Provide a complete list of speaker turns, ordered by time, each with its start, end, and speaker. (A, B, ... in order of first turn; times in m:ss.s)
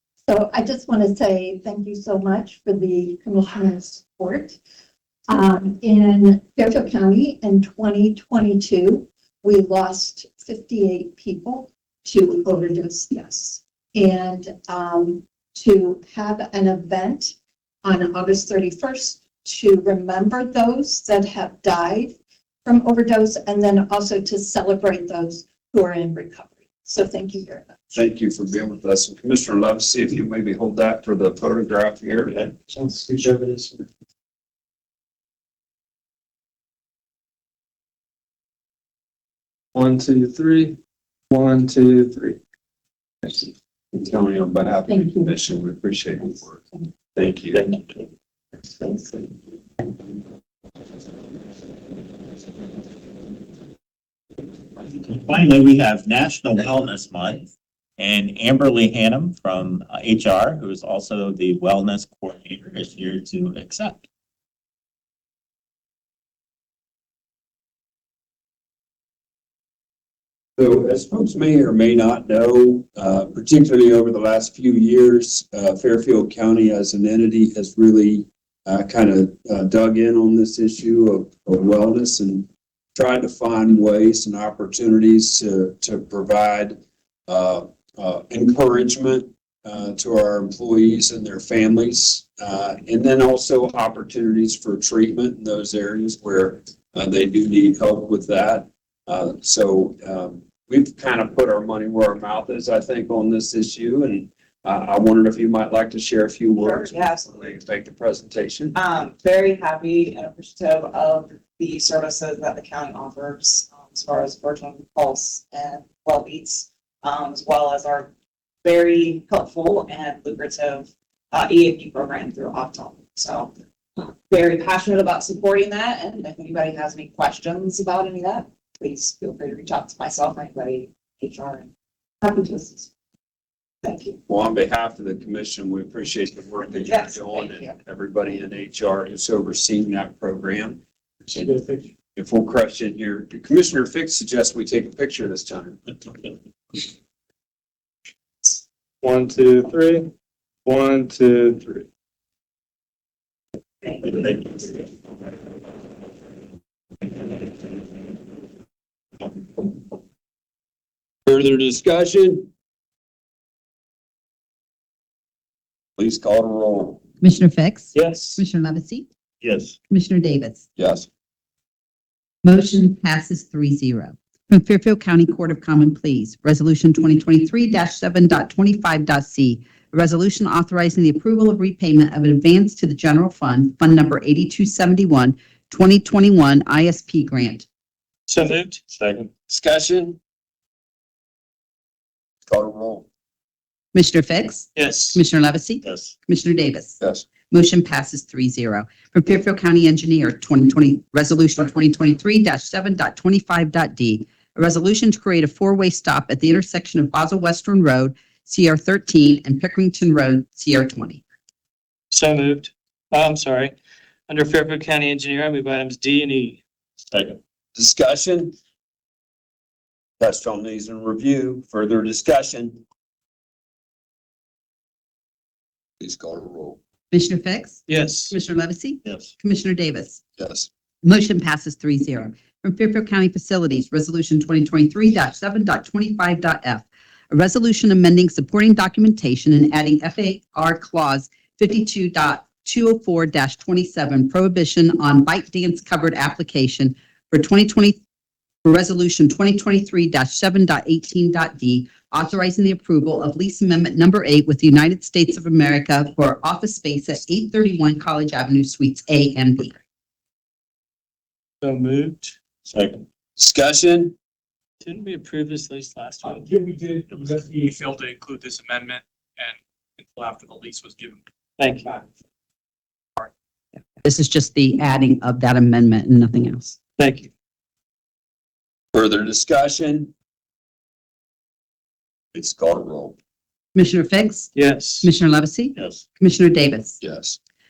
0:00.3-0:04.6 A
0:05.3-0:27.8 A
0:27.9-0:32.5 B
0:32.7-0:33.8 C
0:39.7-0:40.8 C
0:41.3-0:42.4 C
0:43.9-0:47.7 B
0:44.9-0:45.3 A
0:55.0-1:04.0 D
1:10.6-1:48.8 B
1:46.7-1:47.1 E
1:48.7-1:58.1 E
1:58.6-2:11.7 E
2:12.2-2:12.9 A
2:13.8-2:14.2 E
2:14.3-2:20.8 B
2:16.9-2:17.7 E
2:21.3-2:21.9 C
2:22.2-2:25.8 B
2:29.0-2:30.1 C
2:30.6-2:31.9 C
2:41.2-2:42.5 B
2:46.0-2:47.0 B
2:47.2-2:49.1 F
2:48.0-2:48.4 G
2:49.9-2:50.6 F
2:50.8-2:51.1 B
2:52.4-3:07.7 F
3:08.3-3:08.8 G
3:09.5-3:10.2 B
3:12.4-3:13.1 B
3:13.9-3:31.2 F
3:14.8-3:15.2 G
3:17.0-3:17.2 B
3:32.1-3:33.8 G
3:34.3-3:36.6 G
3:37.8-3:38.5 B
3:40.2-3:42.8 B
3:46.0-3:46.8 B
3:47.1-3:50.2 F
3:47.9-3:48.3 G
3:50.4-3:50.7 B
3:51.0-4:08.0 F
4:08.6-4:19.8 F
4:21.6-4:22.4 G
4:22.7-4:23.0 D
4:23.4-4:24.2 B
4:24.8-4:26.5 G
4:26.2-4:31.2 H
4:31.6-4:32.0 G
4:34.0-4:36.8 F
4:37.0-4:37.3 G
4:38.9-4:40.1 B
4:42.3-4:43.2 B
4:43.8-4:47.0 F
4:44.5-4:45.1 G
4:47.0-4:47.4 B